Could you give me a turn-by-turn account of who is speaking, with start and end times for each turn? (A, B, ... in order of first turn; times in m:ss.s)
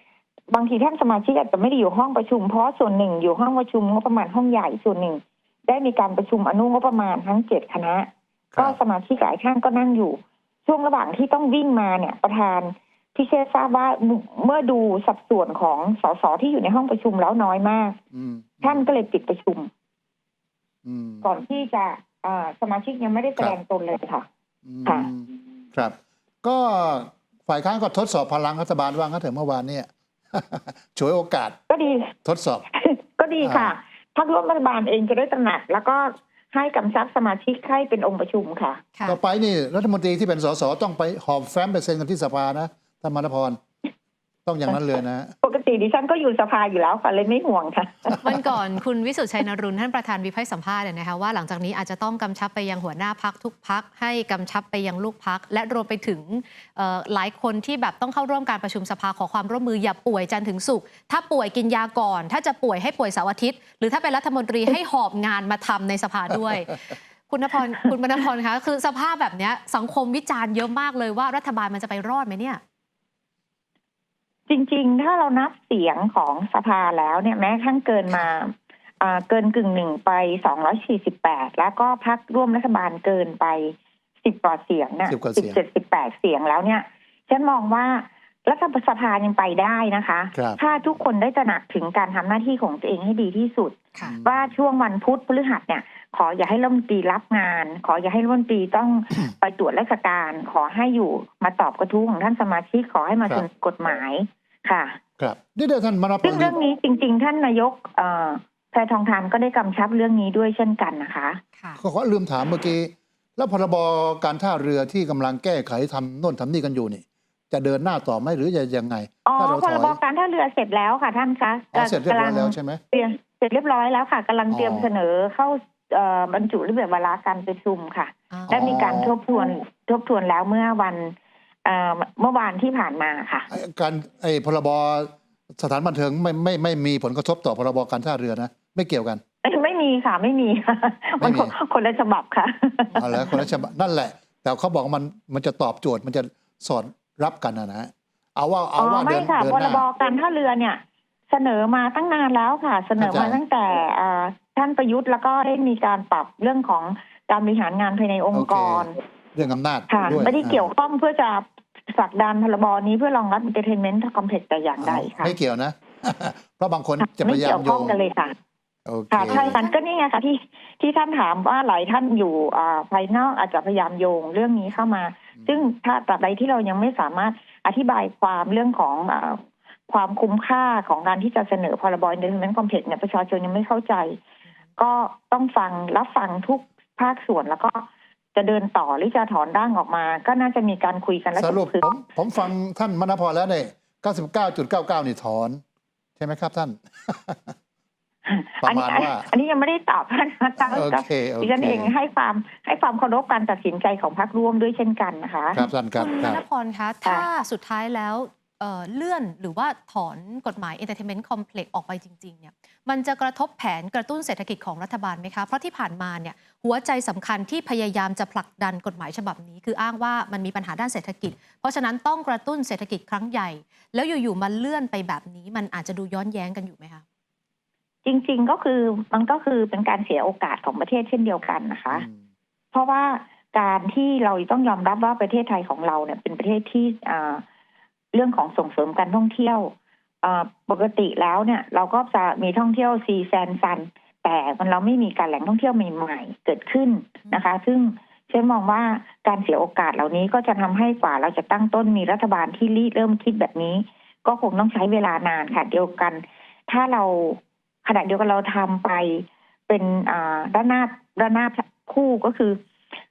0:00.5-0:18.0 A
0:08.5-0:08.8 B
0:18.1-0:18.9 B
0:18.6-0:19.7 A
0:20.8-0:21.2 B
0:21.2-0:24.2 A
0:24.6-0:31.6 B
0:31.7-0:32.1 A
0:32.2-0:32.6 B
0:32.8-0:38.8 A
0:33.4-0:33.7 B
0:39.0-0:43.6 B
0:44.4-0:45.3 B
0:45.4-0:48.2 A
0:48.2-1:12.6 C
1:14.5-1:45.0 A
1:25.1-1:25.6 B
1:34.0-1:34.5 B
1:45.2-1:46.5 B
1:46.2-1:51.4 A
1:51.8-2:00.0 B
1:59.2-2:13.5 A
2:01.7-2:02.8 B
2:04.5-2:04.9 B
2:08.3-2:08.9 C
2:08.5-2:09.1 B
2:13.5-2:19.2 B
2:19.4-2:23.4 A
2:21.2-2:21.5 B
2:23.0-2:29.8 B
2:28.8-2:39.0 A
2:33.0-2:33.4 B
2:38.3-2:40.7 B
2:39.9-2:45.4 A
2:44.8-2:47.9 B
2:47.0-2:48.4 A
2:48.8-2:49.6 B
2:49.1-3:04.2 A
2:49.3-2:49.7 C
3:04.8-3:11.8 A
3:11.4-3:15.6 B
3:16.2-3:17.5 B
3:18.2-3:25.6 A
3:18.6-3:19.3 B
3:20.6-3:21.9 B
3:25.5-3:26.4 B
3:25.9-3:47.0 C
3:48.0-3:52.0 A
3:51.9-3:52.2 B
3:52.7-3:57.4 A
3:58.1-3:59.7 A
4:00.2-4:22.6 A